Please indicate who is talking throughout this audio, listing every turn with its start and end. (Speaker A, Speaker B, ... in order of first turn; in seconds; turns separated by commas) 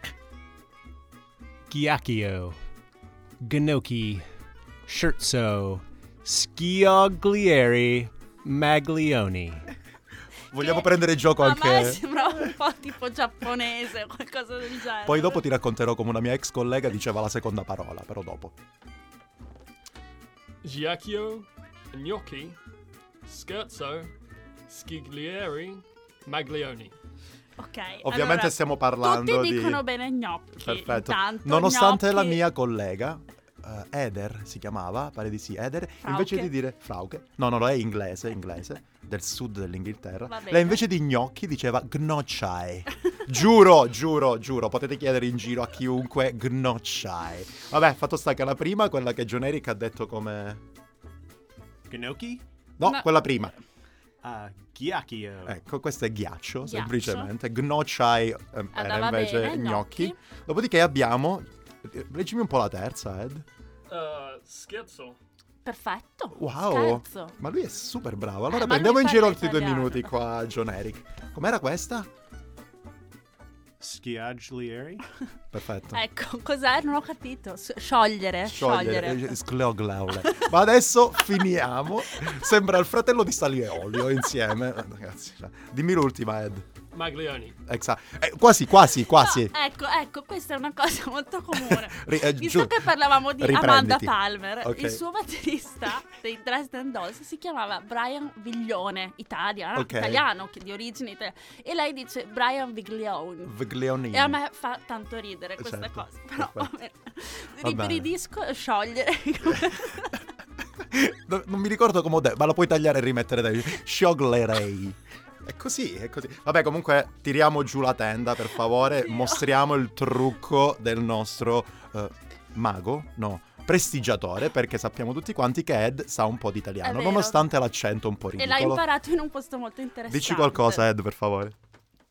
Speaker A: 1.7-2.6, Speaker A: 3.4-4.2, Speaker A: 4.8-9.7, Speaker B: 10.5-12.0, Speaker C: 10.6-15.5, Speaker B: 15.1-18.5, Speaker D: 20.6-22.6, Speaker D: 23.2-24.1, Speaker D: 24.7-26.9, Speaker C: 27.6-32.4, Speaker B: 28.0-29.8, Speaker B: 30.5-50.6, Speaker C: 36.0-36.5, Speaker C: 40.3-40.8, Speaker A: 51.9-52.4, Speaker B: 52.8-53.5, Speaker C: 52.8-53.3, Speaker A: 54.2-55.6, Speaker B: 55.4-63.4, Speaker C: 56.6-57.3, Speaker C: 58.7-60.2, Speaker D: 63.9-65.2, Speaker C: 65.6-67.3, Speaker B: 66.3-72.1, Speaker C: 68.5-70.1, Speaker A: 73.8-75.0, Speaker B: 75.5-76.0, Speaker C: 75.9-79.4, Speaker B: 78.5-86.6, Speaker C: 80.1-80.5, Speaker C: 82.1-82.5, Speaker C: 83.9-84.2, Speaker D: 86.9-87.5, Speaker B: 87.7-89.5, Speaker C: 89.1-103.5, Speaker B: 91.7-95.0, Speaker B: 99.8-100.2, Speaker B: 103.4-104.4, Speaker C: 104.1-110.2, Speaker B: 105.6-106.7, Speaker B: 107.6-108.1, Speaker B: 110.8-128.8, Speaker C: 118.8-119.4, Speaker C: 126.8-127.5, Speaker C: 128.4-130.8, Speaker B: 130.1-131.5